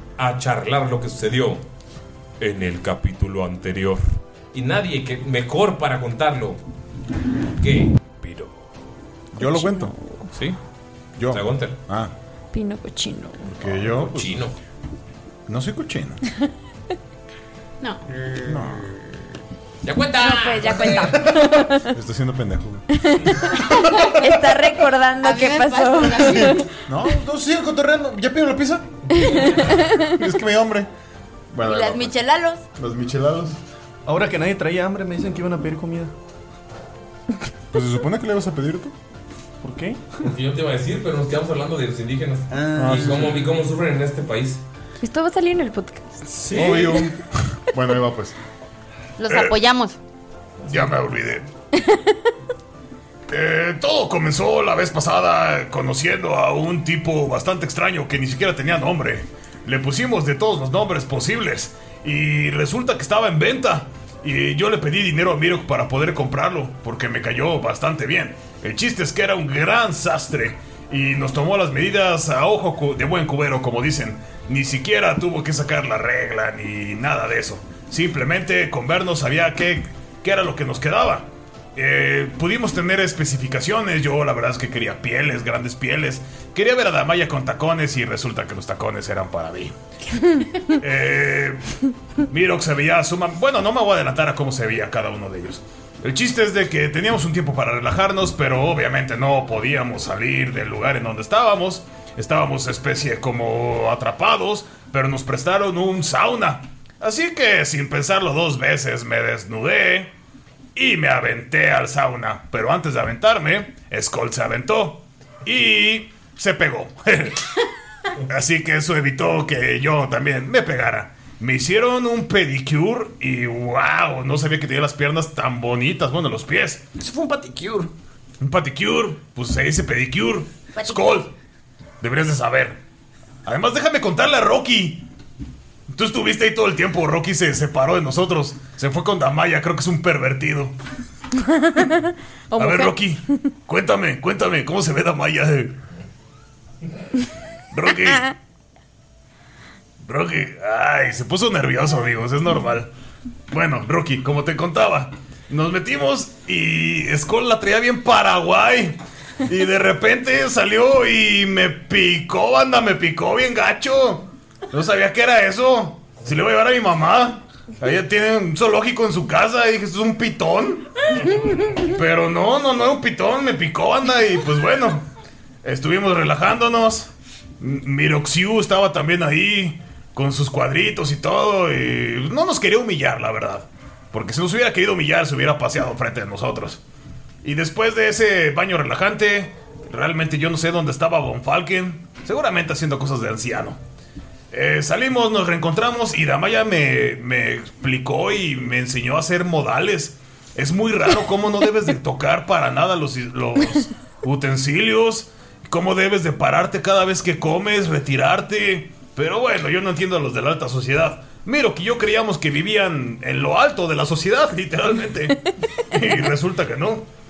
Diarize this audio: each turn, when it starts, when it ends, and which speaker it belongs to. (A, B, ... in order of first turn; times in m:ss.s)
0:00.2-0:01.6 A
0:02.4-0:06.6 A
0:07.6-0:08.5 A
0:09.3-0:09.9 B
0:09.4-0:10.2 C
0:11.2-0:12.1 B
0:11.3-0:11.8 A
0:12.5-0:13.5 C
0:13.5-0:14.4 B
0:13.6-0:14.6 A
0:15.5-0:16.2 B
0:18.4-0:18.9 B
0:19.8-0:21.3 A
0:20.2-0:21.9 C
0:21.9-0:22.8 B
0:22.9-0:26.6 C
0:25.2-0:26.7 D
0:26.9-0:28.9 B
0:29.1-0:29.8 A
0:29.2-0:30.1 C
0:30.0-0:30.9 B
0:31.5-0:32.2 B
0:31.7-0:32.6 D
0:32.8-0:33.6 B
0:34.1-0:36.1 E
0:37.7-0:38.9 B
0:39.6-0:40.0 E
0:40.2-0:44.6 A
0:42.5-0:43.6 F
0:42.8-0:43.4 B
0:45.0-0:46.2 C
0:46.4-0:46.7 F
0:46.5-0:46.9 A
0:46.5-0:48.4 B
0:49.2-0:50.0 D
0:49.3-0:49.6 B
0:50.7-0:51.5 B
0:53.3-1:29.7 B
1:30.8-1:31.6 B
1:32.3-1:50.1 B
1:50.8-1:57.5 B
1:58.3-2:06.8 B
2:07.0-2:07.9 F
2:08.4-2:11.3 B
2:10.8-2:11.1 D
2:12.0-2:12.8 B
2:13.4-2:15.0 B
2:15.9-2:20.7 B
2:21.5-2:22.0 C
2:22.5-2:23.0 C
2:22.6-2:25.7 B
2:27.7-2:28.3 B
2:30.0-2:32.9 B
2:33.5-2:55.0 B
2:51.1-2:51.7 A
2:55.6-3:06.8 B
3:07.4-3:13.8 B
3:14.5-3:37.1 B